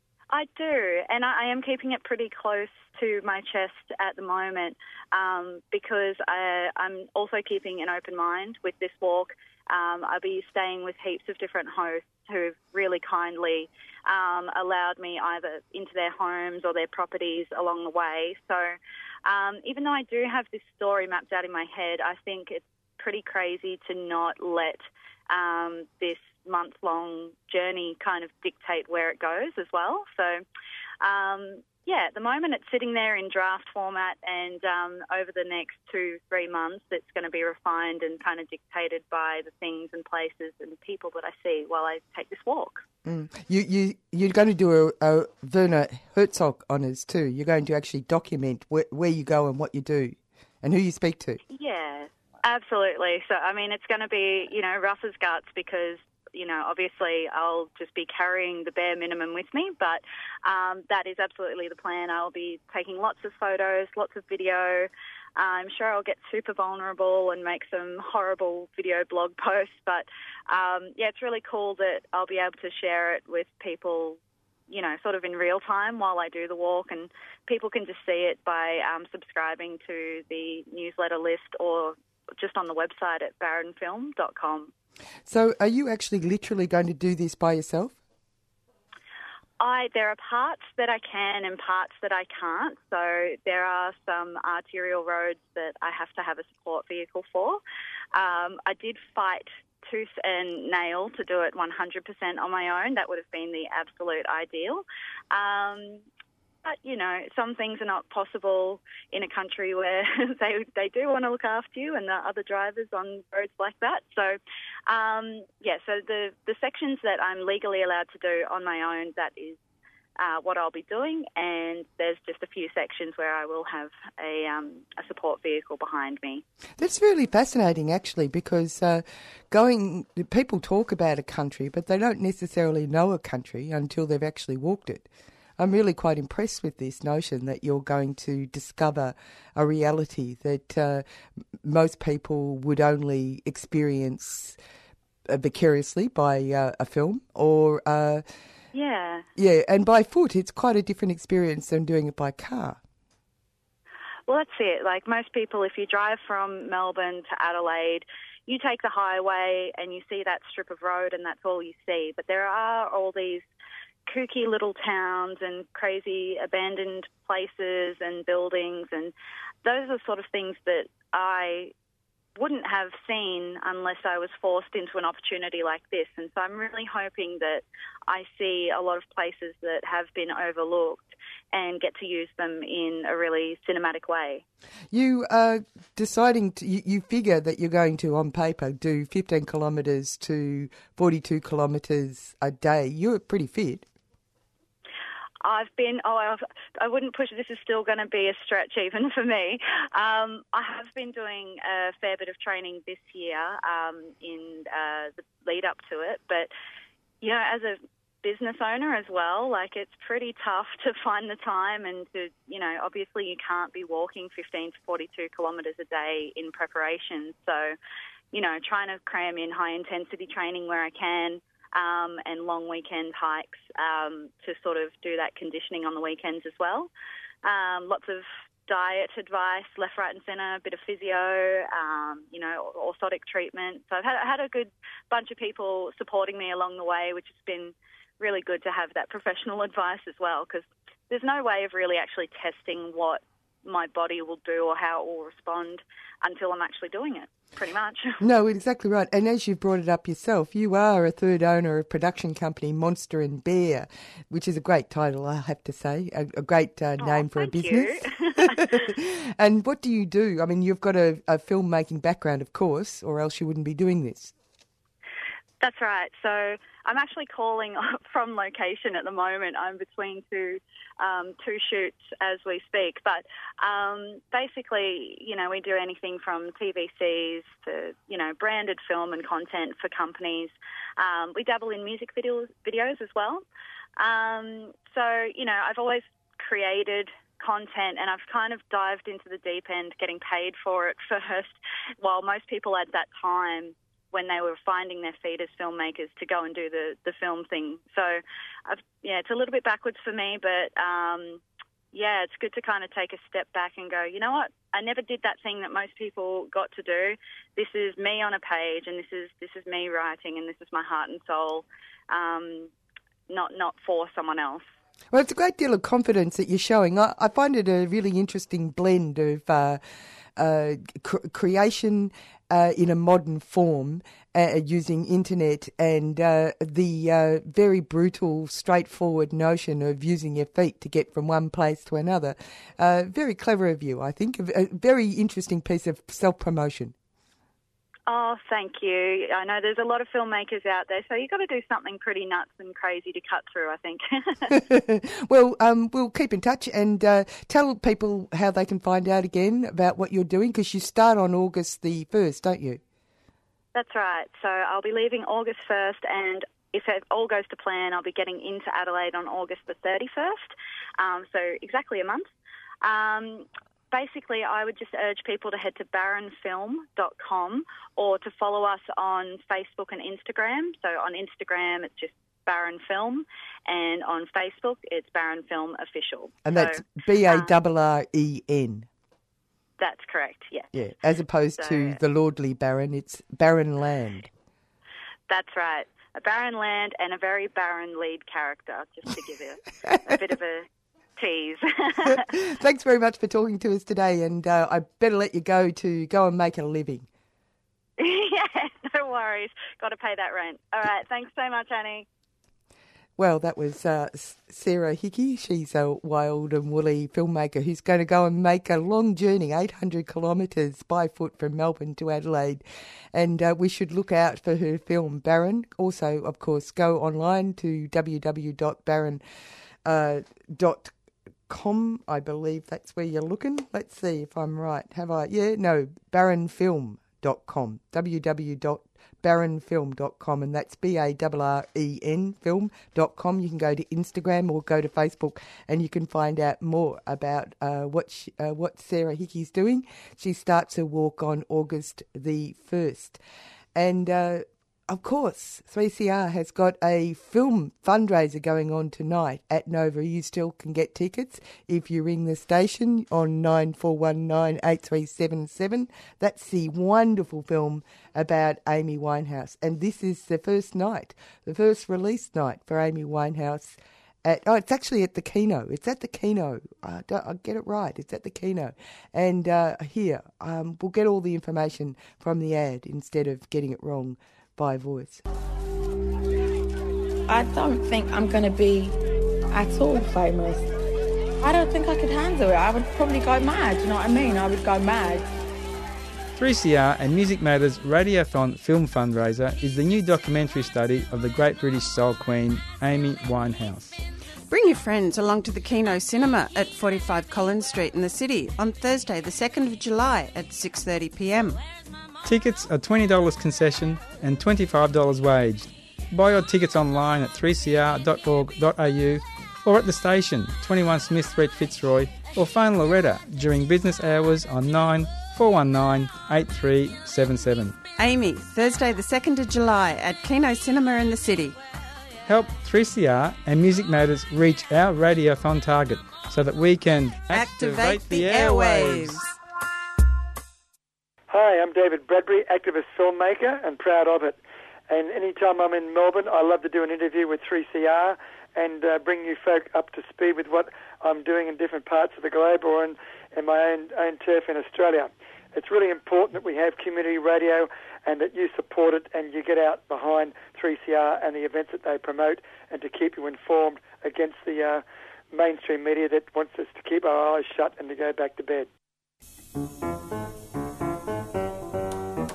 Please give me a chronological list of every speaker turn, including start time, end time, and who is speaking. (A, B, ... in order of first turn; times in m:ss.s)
0:00.3-0:30.4 A
0:31.0-0:42.8 A
0:43.0-0:51.4 B
0:51.5-1:24.7 A
1:25.3-1:28.0 B
1:29.6-1:37.6 A
1:38.1-1:46.0 A
1:46.6-1:59.6 A
2:00.2-2:06.4 A
2:06.8-2:21.0 B
2:21.6-2:24.6 B
2:25.3-2:28.2 B
2:28.7-2:29.2 A
2:29.4-2:32.8 B
2:34.3-2:43.4 A
2:44.1-2:49.1 A
2:49.6-2:51.7 A
2:52.4-3:04.4 A
3:04.9-3:13.9 B
3:15.4-3:26.5 A
3:27.2-3:37.8 A
3:38.3-3:46.9 A
3:47.4-4:08.2 A
4:08.2-4:24.3 B
4:17.0-4:18.7 A
4:25.6-4:43.4 A
4:44.0-5:12.7 A
5:13.3-5:14.6 A
5:15.1-5:19.8 B
5:20.4-5:36.9 B
5:38.1-5:44.5 A
5:44.5-5:52.8 B
5:53.8-6:02.3 A
6:02.8-6:17.5 A
6:16.4-6:18.9 B
6:19.8-6:20.7 A
6:20.7-6:24.3 B
6:21.6-6:22.0 A
6:25.3-6:32.3 A
6:32.0-6:37.1 B
6:38.0-6:42.1 A
6:43.2-6:52.6 B
6:53.1-6:59.2 B
6:59.8-7:00.9 B
7:01.5-7:23.2 B
7:23.8-7:55.2 B
7:57.3-7:59.0 C
7:59.5-8:00.7 C
8:01.4-8:05.3 C
8:06.4-8:14.0 D
8:14.5-8:21.6 E
8:22.2-8:37.8 D
8:38.0-8:41.6 E
8:42.3-8:49.2 D
8:47.3-8:49.3 E
8:51.3-9:18.7 F